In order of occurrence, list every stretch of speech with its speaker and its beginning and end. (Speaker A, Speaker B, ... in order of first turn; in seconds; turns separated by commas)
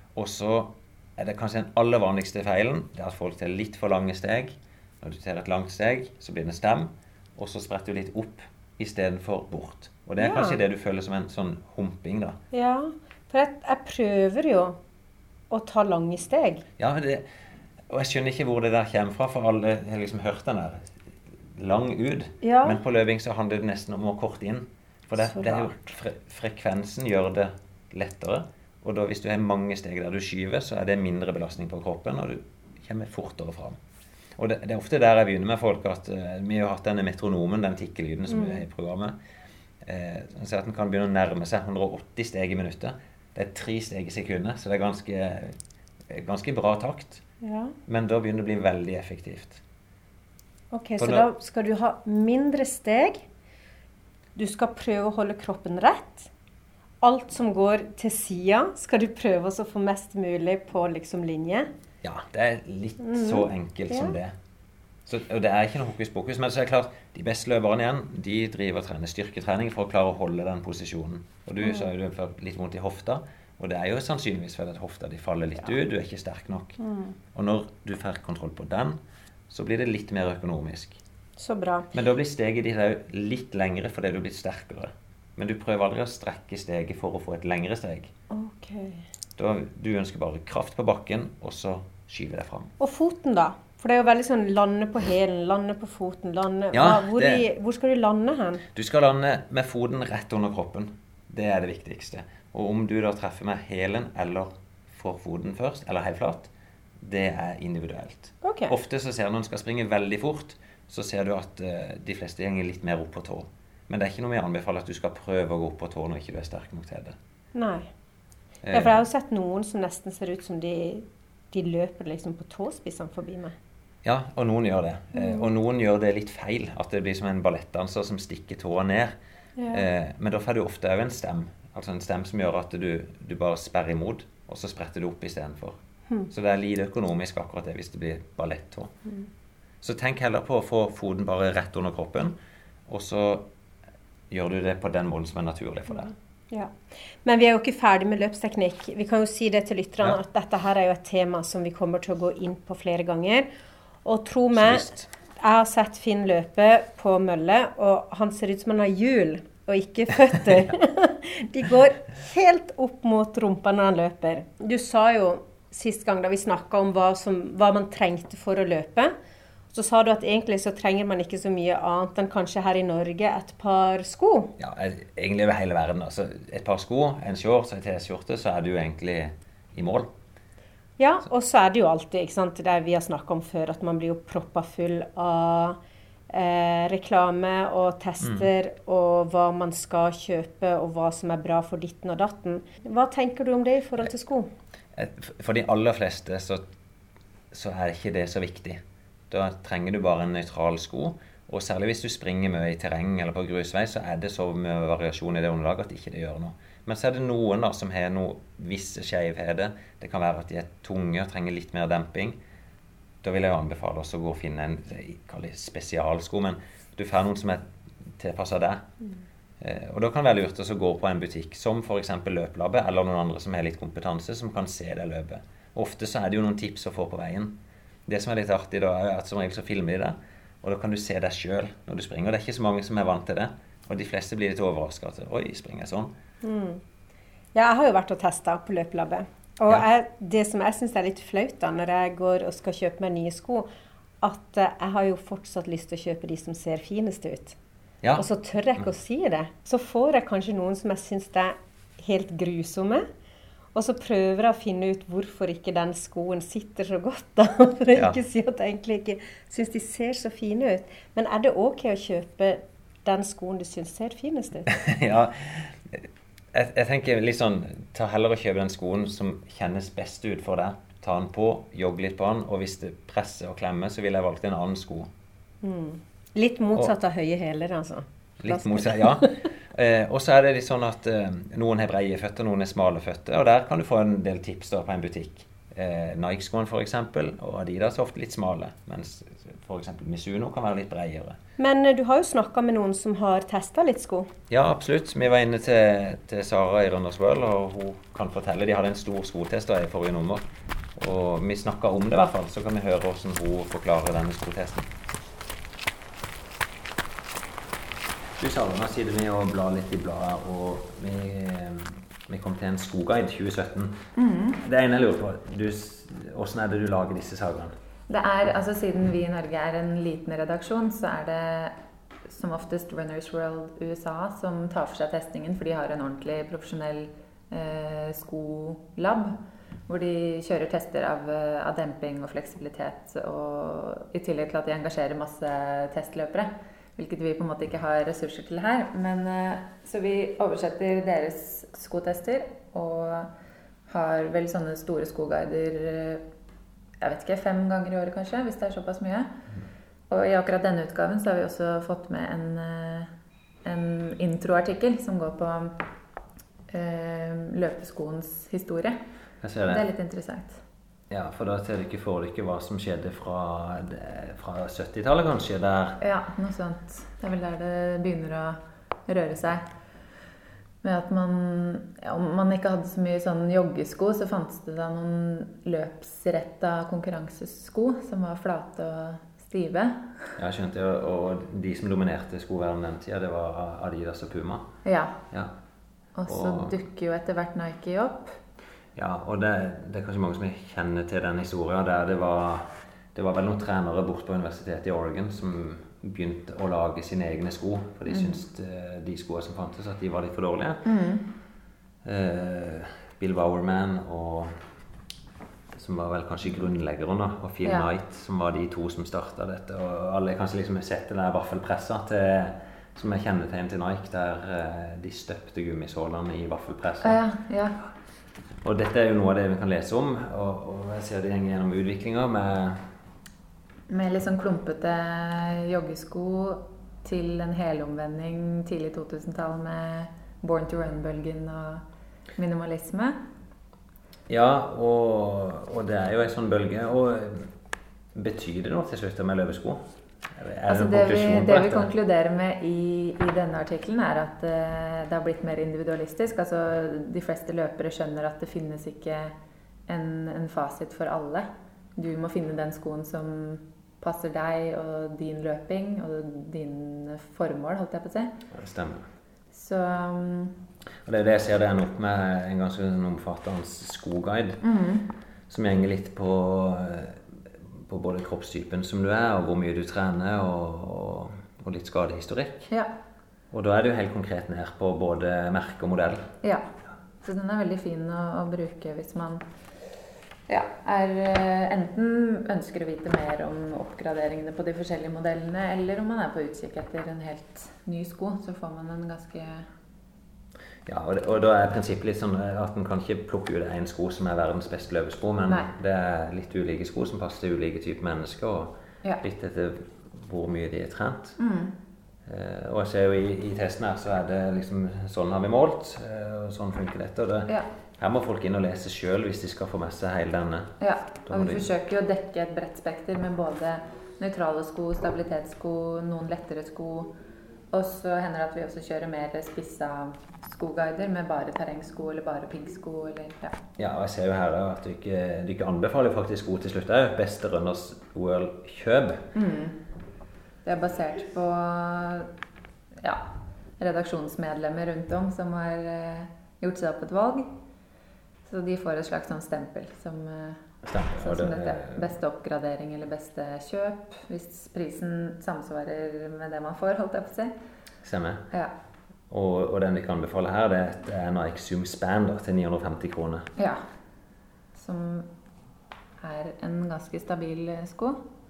Speaker A: 0.1-12.4, Speaker B: 10.2-10.6, Speaker B: 12.5-14.8, Speaker B: 15.5-16.6, Speaker A: 16.8-17.2, Speaker A: 17.9-20.9, Speaker A: 21.6-33.8, Speaker B: 22.4-22.8, Speaker B: 25.2-25.9, Speaker A: 34.4-39.1, Speaker B: 38.3-38.6, Speaker A: 39.8-45.5, Speaker A: 46.1-47.2, Speaker B: 47.4-47.7, Speaker A: 47.9-49.6, Speaker B: 50.7-53.2, Speaker A: 51.0-51.3, Speaker B: 54.4-56.3, Speaker B: 57.0-61.7, Speaker A: 62.0-64.3, Speaker B: 63.0-64.1, Speaker A: 65.0-76.8, Speaker B: 71.6-71.9, Speaker B: 76.8-77.2, Speaker A: 77.3-79.0, Speaker A: 79.5-81.0, Speaker B: 81.4-81.9, Speaker A: 81.9-88.1, Speaker B: 88.3-89.0, Speaker A: 89.4-92.7, Speaker B: 92.8-98.6, Speaker A: 96.7-97.5, Speaker A: 98.7-106.5, Speaker A: 107.0-117.2, Speaker B: 108.4-108.7, Speaker B: 117.5-117.9, Speaker A: 118.6-119.0, Speaker B: 118.7-123.5, Speaker A: 124.0-129.1, Speaker B: 125.2-125.4, Speaker B: 129.6-129.9, Speaker A: 129.7-135.8, Speaker A: 136.3-138.9, Speaker A: 139.8-142.4, Speaker A: 142.9-143.5, Speaker A: 144.3-146.1, Speaker B: 146.5-153.5, Speaker B: 154.0-169.1, Speaker A: 154.5-155.1, Speaker B: 169.7-174.6, Speaker A: 174.6-180.1, Speaker B: 181.0-185.8, Speaker B: 186.3-194.5, Speaker A: 188.2-188.5, Speaker A: 194.9-196.7, Speaker A: 197.5-212.4, Speaker A: 213.2-218.9, Speaker A: 219.6-236.1, Speaker B: 236.4-236.8, Speaker B: 237.5-243.7, Speaker B: 244.2-247.6, Speaker A: 248.0-248.9, Speaker B: 248.2-253.1, Speaker B: 253.7-264.7, Speaker A: 264.7-275.1, Speaker B: 275.6-279.4, Speaker A: 278.4-291.4, Speaker B: 291.6-294.3, Speaker A: 294.5-300.4, Speaker A: 300.9-304.9, Speaker A: 308.4-314.1, Speaker C: 314.1-314.6, Speaker A: 314.6-317.8, Speaker C: 318.1-343.3, Speaker C: 343.9-346.2, Speaker C: 347.0-349.3, Speaker C: 350.1-353.1, Speaker C: 353.6-355.9, Speaker C: 356.7-359.0, Speaker A: 359.4-359.9, Speaker C: 359.7-360.6, Speaker A: 361.1-366.0, Speaker C: 366.0-369.7, Speaker C: 370.8-380.4, Speaker A: 380.4-384.8, Speaker C: 384.8-385.2, Speaker C: 386.1-388.4, Speaker A: 386.3-386.8, Speaker A: 388.9-400.9, Speaker C: 398.1-398.4, Speaker C: 400.8-401.3, Speaker A: 402.0-404.7, Speaker A: 405.7-417.2, Speaker C: 407.6-407.9, Speaker C: 417.0-417.8, Speaker A: 418.6-422.9, Speaker C: 423.9-431.8, Speaker C: 432.4-433.2, Speaker A: 434.3-437.5, Speaker A: 438.1-441.9, Speaker C: 440.7-449.4, Speaker C: 449.9-458.4, Speaker A: 458.5-459.1, Speaker C: 459.5-460.7, Speaker A: 461.0-464.6, Speaker C: 464.6-465.1, Speaker A: 465.5-472.7, Speaker A: 473.5-476.3, Speaker C: 476.4-476.7, Speaker C: 477.2-479.4, Speaker C: 480.5-489.7, Speaker A: 490.9-501.4, Speaker C: 495.4-495.7, Speaker C: 501.4-501.8, Speaker A: 502.2-511.7, Speaker C: 510.8-517.1, Speaker C: 517.7-523.6, Speaker A: 523.8-529.3, Speaker C: 529.3-529.8, Speaker C: 530.6-532.3, Speaker C: 533.0-537.5, Speaker C: 538.5-540.6, Speaker A: 540.8-542.1, Speaker C: 541.1-547.5, Speaker A: 548.0-548.5, Speaker A: 549.3-553.5, Speaker C: 553.5-553.9, Speaker C: 554.7-555.3, Speaker C: 556.2-558.2